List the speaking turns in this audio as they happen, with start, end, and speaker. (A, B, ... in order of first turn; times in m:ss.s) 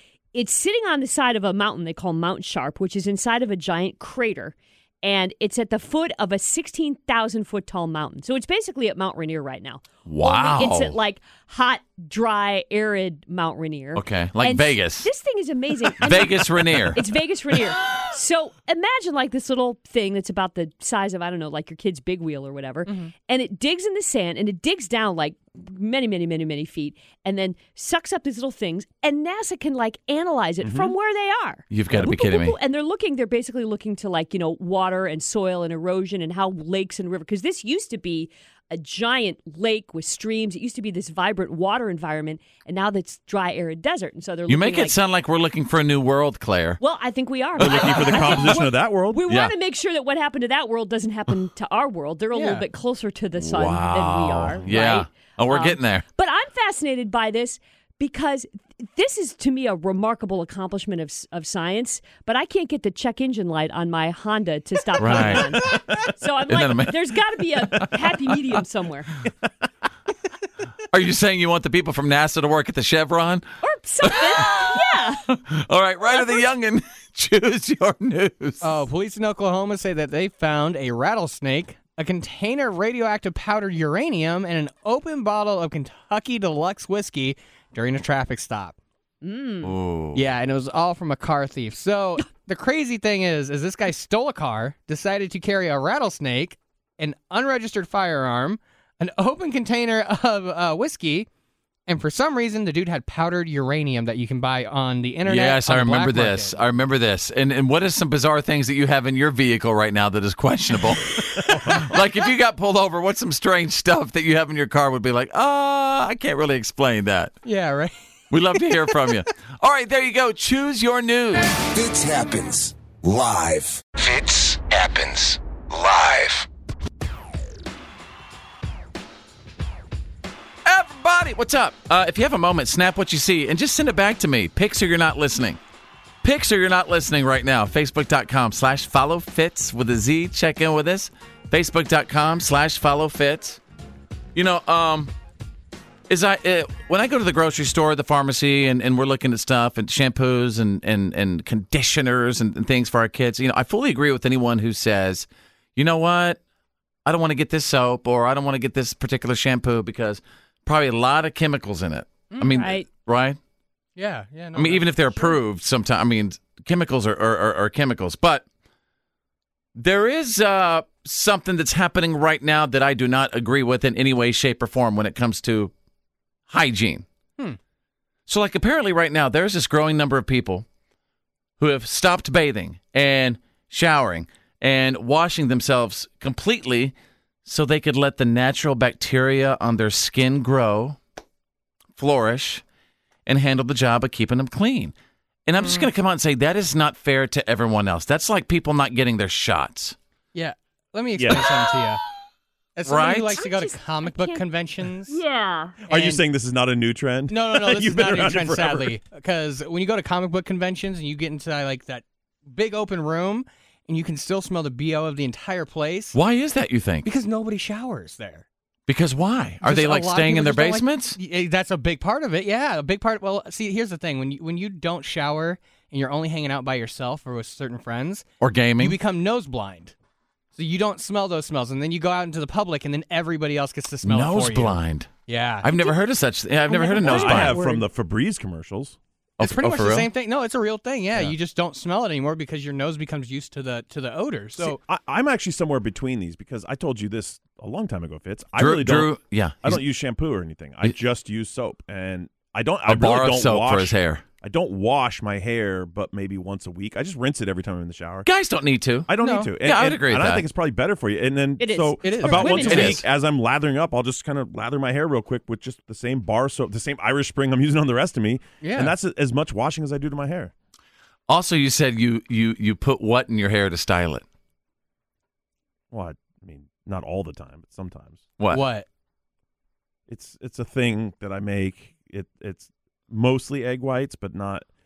0:00.3-0:44.9 A
0:10.0-0:11.0 B
0:14.0-0:15.1 B
0:16.0-0:17.0 B
0:22.8-0:23.1 C
0:30.6-0:30.9 D
0:31.7-0:32.6 B
0:31.9-0:32.2 D
0:44.5-0:46.8 B
0:46.8-1:09.1 A
0:47.6-0:49.2 D
0:47.6-0:48.6 B
0:49.3-0:49.5 B
0:52.3-0:52.6 C
0:53.4-0:56.0 B
1:05.0-1:07.0 B
1:10.9-1:13.4 B
1:13.6-1:15.2 A
1:14.0-1:18.8 B
1:16.1-1:16.5 A
1:18.6-1:28.8 C
1:29.2-1:29.7 A
1:29.6-1:30.2 B
1:30.1-1:41.3 C
1:41.9-1:46.6 C
1:45.2-1:57.3 B
1:57.4-1:57.9 C
1:58.3-2:01.5 B
2:01.7-2:06.4 E
2:10.6-2:15.6 B
2:16.2-2:23.6 B
2:24.3-2:25.1 B
2:26.1-2:36.4 B
2:37.0-2:43.4 B
2:42.3-2:42.7 C
2:42.6-2:42.9 A
2:44.0-2:45.4 C
2:44.5-2:48.4 B
2:49.8-2:55.7 B
2:56.5-2:57.0 B
2:58.3-3:00.6 B
3:01.6-3:06.9 B
3:07.4-3:11.0 B
3:12.0-3:12.6 B
3:13.2-3:14.9 B
3:15.4-3:20.0 B
3:15.6-3:15.9 C
3:20.3-3:22.0 C
3:21.2-3:21.5 D
3:22.8-3:25.2 C
3:22.8-3:23.4 B
3:23.4-3:24.4 A
3:25.1-3:25.8 A
3:25.8-3:26.2 C
3:25.9-3:28.9 D
3:27.3-3:36.2 C
3:36.1-3:37.1 B
3:37.0-3:38.4 C
3:38.9-3:41.2 B
3:39.6-3:48.3 C
3:48.4-3:49.0 B
3:48.8-3:49.9 C
3:50.6-3:56.0 C
3:54.0-3:57.6 B
3:56.7-3:57.7 C
3:57.0-3:59.0 D
3:57.5-3:57.8 A
3:59.4-4:00.1 B
3:59.4-4:04.8 C
4:04.6-4:18.3 D
4:08.6-4:09.8 B
4:12.9-4:14.2 B
4:18.2-4:20.4 B
4:19.1-4:30.5 D
4:19.2-4:19.5 C
4:21.6-4:23.0 A
4:22.0-4:23.0 C
4:22.5-4:23.0 B
4:28.6-4:28.9 C
4:31.3-4:34.2 B
4:35.9-4:38.2 D
4:38.4-4:38.7 B
4:38.5-4:38.9 C
4:40.1-4:44.6 D